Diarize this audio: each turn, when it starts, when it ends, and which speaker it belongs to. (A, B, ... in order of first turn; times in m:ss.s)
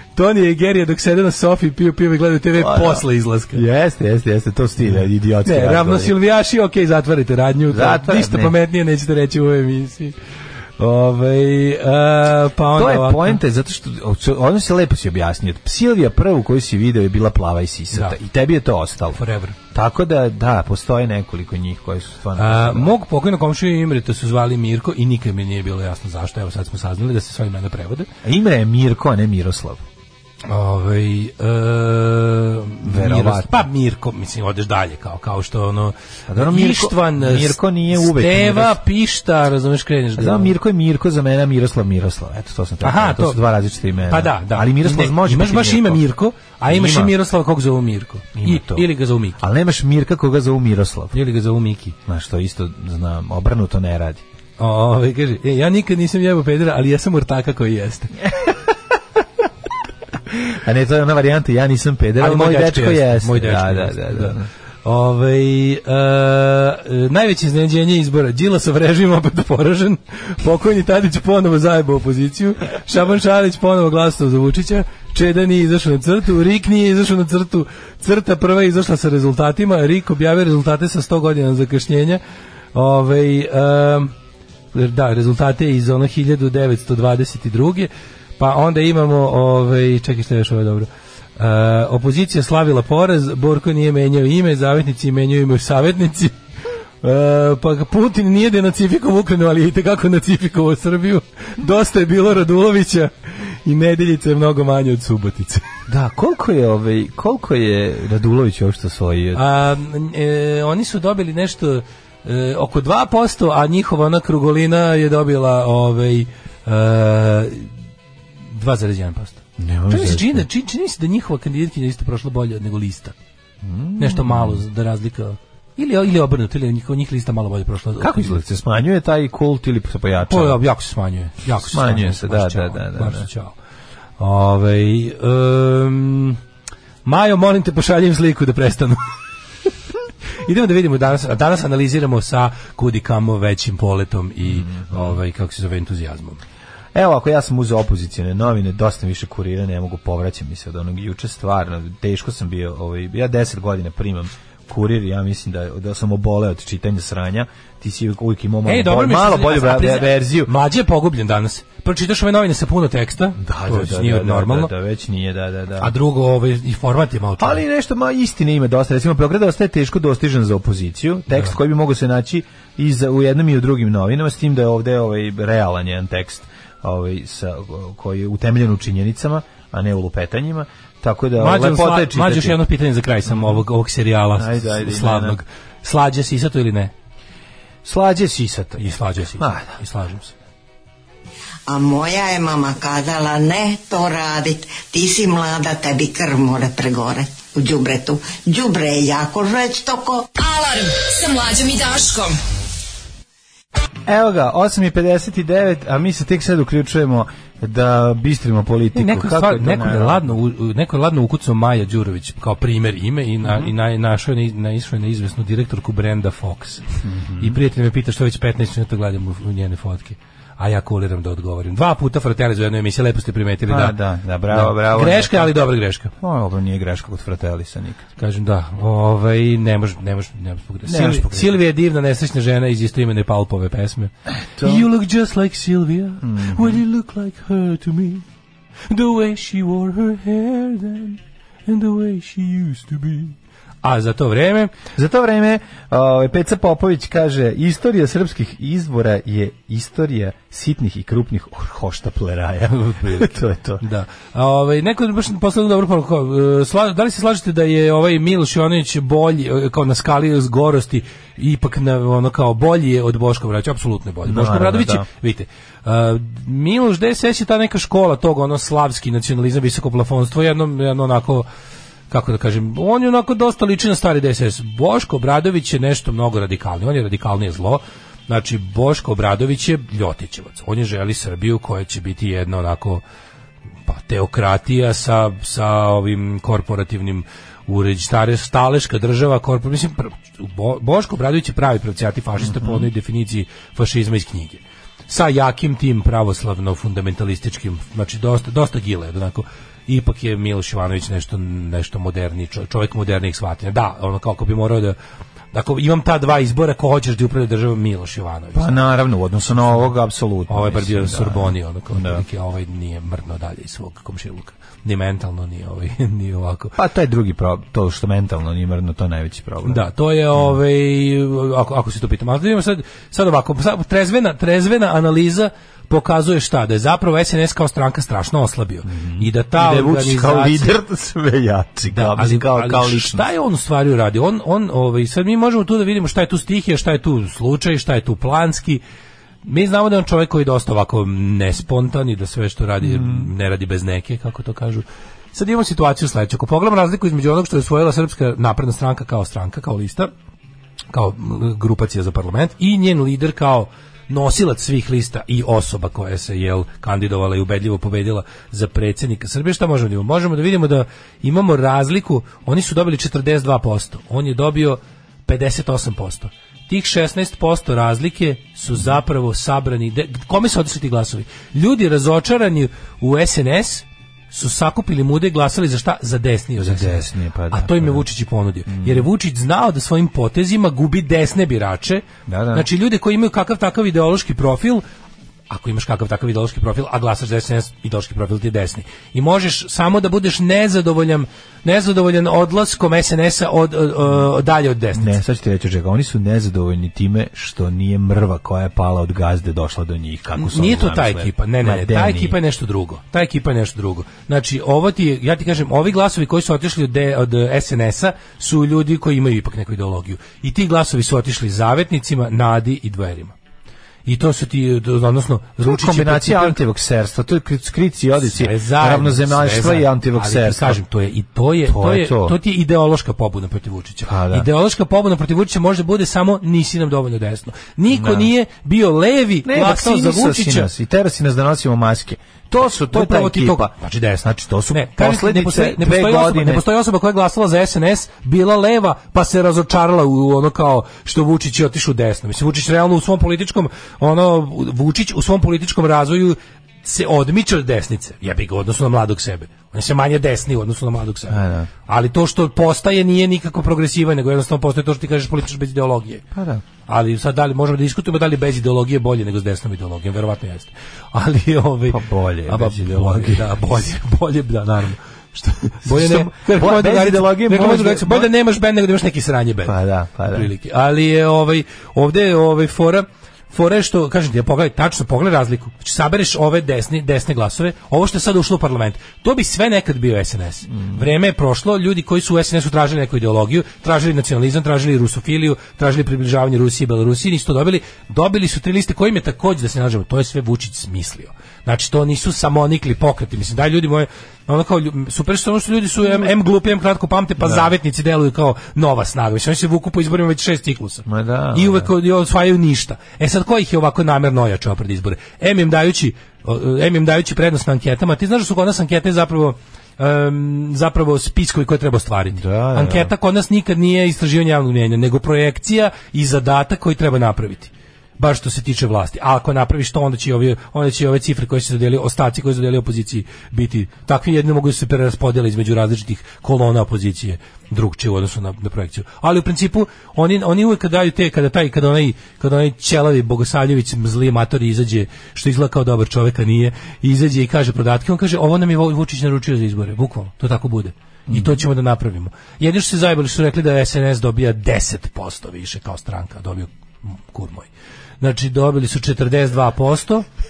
0:00.1-0:03.6 A
0:02.6-0:06.1 B
0:05.4-0:10.1 A
0:07.7-0:08.5 B
0:10.8-0:13.4 A
0:12.7-0:19.2 B
0:17.9-0:18.2 A
0:19.1-0:19.6 A
0:19.7-0:22.9 B
0:22.4-0:28.1 A
0:28.2-0:29.8 B
0:30.5-0:40.5 A
0:32.8-0:33.7 B
0:36.3-0:38.8 B
0:40.2-0:46.0 B
0:42.8-0:43.4 A
0:44.1-0:49.4 A
0:46.7-0:47.1 B
0:48.3-0:51.2 B
0:51.1-0:51.9 A
0:52.0-0:54.2 B
0:54.6-0:58.3 A
1:00.3-1:04.5 B
1:02.2-1:22.2 A
1:22.7-1:24.1 A
1:24.7-1:36.3 A
1:37.0-1:45.6 A
1:45.9-1:49.4 B
1:49.3-1:57.7 A
1:58.5-2:03.1 A
1:59.6-2:00.4 B
2:03.6-2:04.6 B
2:04.0-2:08.4 A
2:08.0-2:10.6 B
2:10.2-2:13.6 A
2:11.6-2:13.3 B
2:14.2-2:16.4 A
2:17.0-2:19.1 A
2:20.4-2:26.4 A
2:24.5-2:25.2 B
2:26.9-2:40.5 B
2:38.6-2:44.7 A
2:43.4-2:45.9 B
2:45.8-2:47.6 A
2:47.4-3:02.6 B
3:01.4-3:06.9 A
3:03.2-3:03.6 B
3:04.4-3:05.4 B
3:07.8-3:09.8 B
3:08.8-3:10.3 A
3:11.7-3:20.3 C
3:20.4-3:22.4 D
3:24.1-3:30.3 B
3:28.9-3:44.0 A
3:33.4-3:33.7 B
3:37.0-3:37.6 B
3:43.7-3:45.5 B
3:44.5-3:46.1 A
3:46.2-3:48.0 B
3:48.2-3:58.2 A
3:50.8-3:51.6 B
3:54.5-3:54.8 B
3:56.2-3:56.8 B
3:58.9-4:04.7 A
4:04.9-4:13.8 B
4:12.9-4:13.3 A
4:13.8-4:31.5 A
4:24.2-4:25.0 B
4:32.1-4:43.0 A
4:43.9-5:05.0 A
4:52.4-4:52.9 B
5:05.5-5:08.8 A
5:08.5-5:12.2 B
5:09.5-5:09.9 A
5:10.5-5:16.8 A
5:16.8-5:20.6 B
5:19.6-5:30.8 A
5:28.8-5:33.2 B
5:31.9-5:38.8 A
5:39.4-5:50.1 A
5:42.8-5:43.3 B
5:50.9-6:24.8 A
6:16.6-6:18.0 B
6:18.7-6:19.1 B
6:22.3-6:22.7 B
6:25.5-6:35.2 A
6:34.9-6:42.4 B
6:40.4-6:53.3 A
6:54.0-6:56.6 A
6:55.6-7:00.8 B
6:58.2-7:10.7 A
7:01.6-7:02.4 B
7:04.0-7:04.5 B
7:07.9-7:08.3 B
7:09.4-7:16.6 B
7:12.9-7:36.2 A
7:31.3-7:31.7 B
7:36.3-7:36.6 B
7:36.8-7:49.8 A
7:41.9-7:43.6 B
7:45.8-7:48.3 B
7:49.6-7:50.5 B
7:50.3-9:07.7 A
8:17.4-8:17.7 B
8:21.0-8:21.9 B
8:32.3-8:33.1 B
9:01.3-9:01.6 B
9:08.2-9:10.2 A